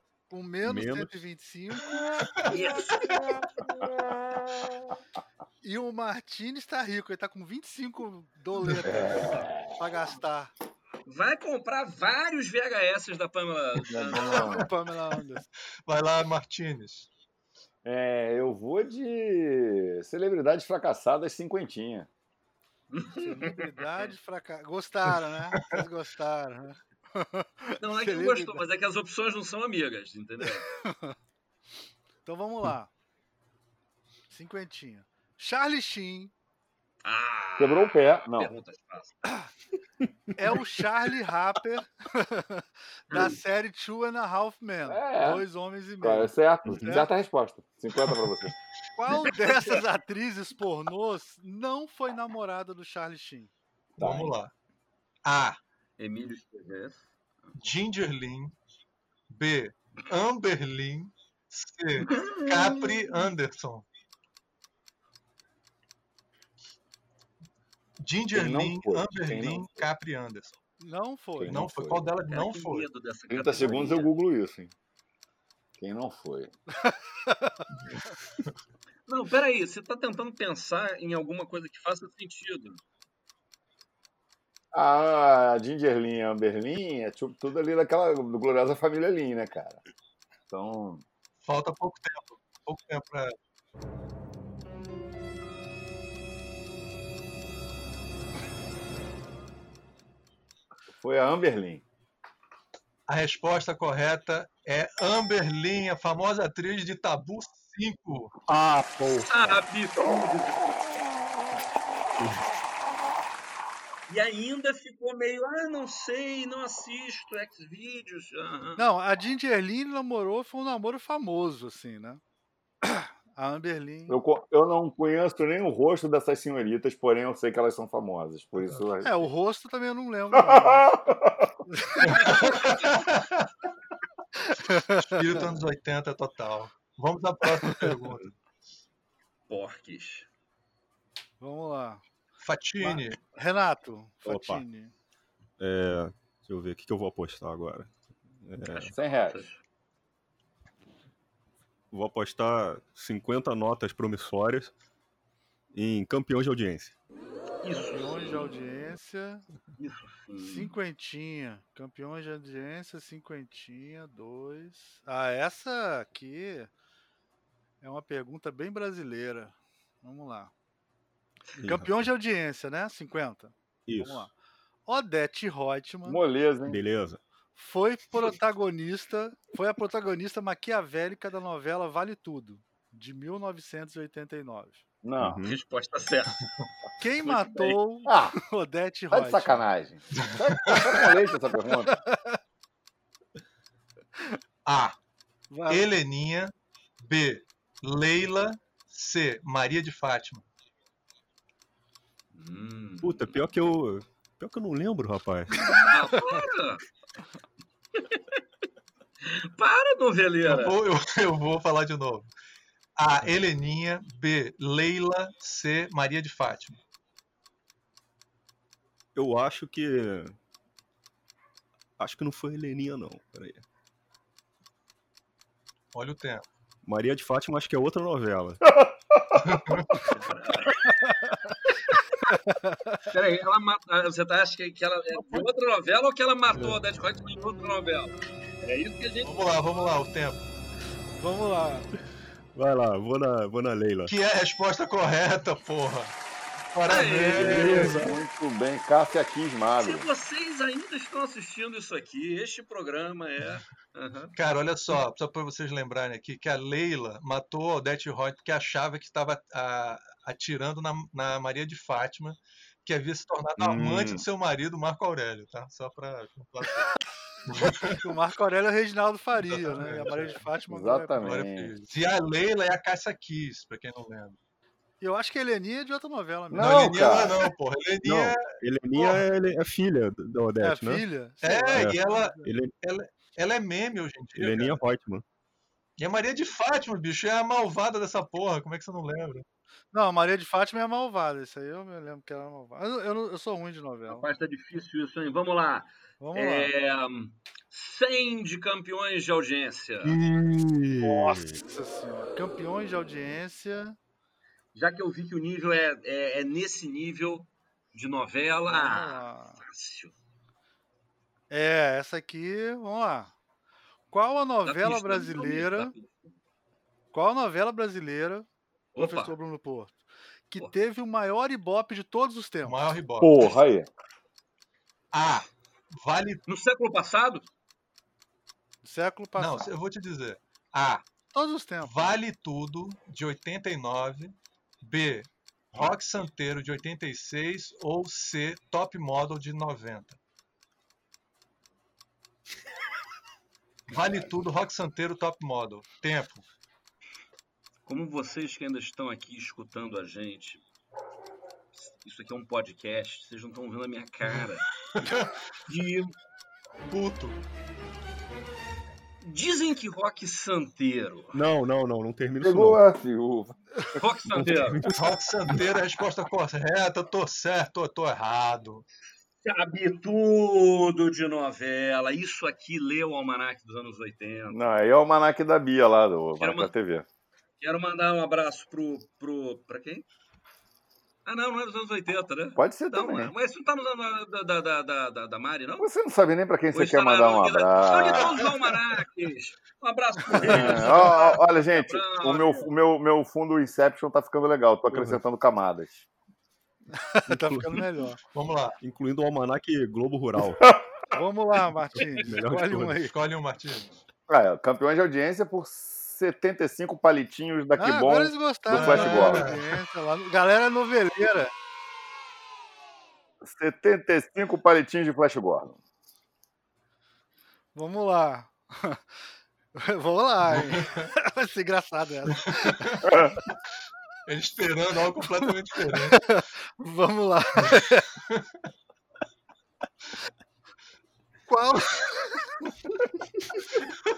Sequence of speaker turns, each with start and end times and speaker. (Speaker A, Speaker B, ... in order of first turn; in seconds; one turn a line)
Speaker A: 0.3-1.9
Speaker B: 0.6-1.2
Speaker C: 2.2-2.6
Speaker D: 2.5-3.4
Speaker A: 5.6-10.5
Speaker E: 8.8-9.7
Speaker D: 11.1-14.5
Speaker E: 13.9-14.7
Speaker A: 14.5-15.5
Speaker C: 15.8-17.1
Speaker E: 17.8-22.1
Speaker D: 22.9-24.0
Speaker A: 23.1-28.6
Speaker D: 27.8-30.7
Speaker A: 30.8-31.1
Speaker A: 32.2-32.9
Speaker A: 34.3-36.3
Speaker D: 37.0-39.2
Speaker E: 37.6-38.5
Speaker A: 40.4-47.1
Speaker E: 44.9-45.4
Speaker E: 46.0-48.5
Speaker B: 46.6-47.0
Speaker A: 49.0-53.5
Speaker E: 54.0-54.4
Speaker C: 54.0-54.5
Speaker C: 55.2-55.6
Speaker D: 56.0-57.5
Speaker C: 57.6-58.5
Speaker C: 59.3-63.9
Speaker D: 62.1-63.1
Speaker C: 68.0-70.6
Speaker E: 68.3-69.9
Speaker A: 70.8-71.6
Speaker E: 71.4-72.1
Speaker C: 71.4-72.9
Speaker D: 72.3-74.1
Speaker E: 73.3-74.7
Speaker E: 75.8-76.5
Speaker A: 76.8-77.6
Speaker D: 79.1-82.8
Speaker E: 84.7-89.8
Speaker E: 90.5-91.0
Speaker C: 91.4-93.3
Speaker E: 100.9-101.8
Speaker C: 103.1-108.3
Speaker B: 108.5-109.6
Speaker D: 109.1-110.8
Speaker B: 112.2-112.4
Speaker D: 114.1-118.8
Speaker A: 118.8-122.2
Speaker A: 122.8-124.2
Speaker E: 124.1-129.3
Speaker A: 129.0-131.0
Speaker E: 130.3-131.6
Speaker A: 131.7-132.4
Speaker C: 132.0-133.5
Speaker A: 134.4-135.2
Speaker C: 134.9-138.3
Speaker D: 139.5-140.3
Speaker A: 141.4-142.0
Speaker C: 142.4-143.2
Speaker A: 142.8-144.9
Speaker B: 144.2-144.6
Speaker B: 145.6-148.9
Speaker D: 148.7-149.6
Speaker E: 148.9-149.4
Speaker B: 151.9-154.7
Speaker B: 155.7-156.9
Speaker D: 157.6-158.5
Speaker A: 157.9-159.4
Speaker D: 159.8-160.7
Speaker A: 160.4-166.7
Speaker A: 167.8-170.5
Speaker B: 171.6-171.9
Speaker A: 171.6-174.3
Speaker B: 173.9-174.3
Speaker A: 174.8-176.2
Speaker E: 176.1-176.8
Speaker B: 176.7-177.2
Speaker A: 177.5-184.8
Speaker E: 185.0-185.4
Speaker B: 185.2-185.6
Speaker D: 185.4-186.4
Speaker A: 187.0-189.6
Speaker D: 187.2-187.8
Speaker E: 188.1-188.3
Speaker E: 189.1-192.0
Speaker C: 190.2-190.9
Speaker A: 192.1-192.4
Speaker C: 194.7-194.9
Speaker A: 195.5-195.9
Speaker C: 195.7-200.4
Speaker D: 202.3-203.3
Speaker B: 203.0-205.9
Speaker D: 205.9-206.8
Speaker D: 209.2-210.8
Speaker C: 210.4-212.3
Speaker C: 213.0-216.8
Speaker B: 219.1-220.3
Speaker B: 222.0-223.6
Speaker C: 225.9-226.4
Speaker B: 226.8-228.6
Speaker E: 228.7-229.7
Speaker C: 229.4-229.9
Speaker D: 230.1-230.9
Speaker A: 230.8-231.6
Speaker A: 232.3-233.1
Speaker D: 233.1-239.4
Speaker C: 239.2-240.4
Speaker A: 241.2-241.9
Speaker B: 242.5-244.1
Speaker C: 244.1-246.1
Speaker C: 246.7-248.0
Speaker D: 246.8-248.0
Speaker B: 247.3-248.2
Speaker E: 247.7-250.1
Speaker D: 249.8-254.3
Speaker C: 254.3-266.9
Speaker B: 263.6-264.2
Speaker C: 267.5-268.0
Speaker A: 267.9-271.3
Speaker C: 269.4-270.2
Speaker E: 270.7-271.7
Speaker C: 271.2-274.4
Speaker A: 275.0-277.0
Speaker E: 276.5-277.5
Speaker C: 276.6-279.2
Speaker B: 278.0-281.1
Speaker A: 280.6-282.5
Speaker C: 281.4-284.8
Speaker B: 281.7-282.7
Speaker B: 284.4-285.2
Speaker C: 286.0-289.4
Speaker A: 289.9-294.2
Speaker D: 294.1-300.2
Speaker A: 296.2-296.7
Speaker B: 300.0-301.6
Speaker A: 301.0-304.0
Speaker D: 304.7-310.1
Speaker A: 308.7-309.6
Speaker A: 311.5-313.3
Speaker A: 314.1-315.9
Speaker D: 314.6-316.3
Speaker A: 317.1-319.9
Speaker D: 318.9-319.3
Speaker A: 320.5-322.8
Speaker C: 322.6-323.5
Speaker E: 323.2-323.9
Speaker C: 325.1-326.4
Speaker D: 326.5-327.4
Speaker A: 328.8-329.7
Speaker C: 329.4-331.1
Speaker A: 331.3-332.1
Speaker C: 331.8-340.2
Speaker C: 343.9-346.4
Speaker D: 347.9-350.6
Speaker D: 351.8-354.7
Speaker C: 354.3-355.3
Speaker D: 355.7-356.1
Speaker C: 356.9-357.4
Speaker D: 359.2-361.4
Speaker B: 361.3-362.8
Speaker E: 362.4-363.5
Speaker D: 364.0-364.9
Speaker B: 364.3-365.6
Speaker C: 364.9-368.9
Speaker D: 369.4-374.8
Speaker E: 374.5-377.1
Speaker D: 376.4-376.7
Speaker D: 377.6-380.1
Speaker D: 381.2-385.9
Speaker E: 382.5-383.3
Speaker E: 385.8-388.4
Speaker D: 386.7-392.7
Speaker E: 390.4-396.1
Speaker B: 394.9-395.2
Speaker A: 397.0-398.2
Speaker B: 397.3-397.8
Speaker C: 398.3-398.8
Speaker B: 398.8-400.7
Speaker A: 401.1-403.1
Speaker B: 402.0-403.0
Speaker C: 403.1-403.9
Speaker E: 404.3-409.6
Speaker A: 407.8-411.5
Speaker C: 408.7-409.7
Speaker E: 413.4-415.8
Speaker A: 417.7-419.0
Speaker A: 419.7-423.1
Speaker C: 420.5-421.1
Speaker C: 422.5-423.2
Speaker E: 423.0-423.3
Speaker C: 424.3-426.3
Speaker A: 426.1-428.1
Speaker A: 431.5-432.5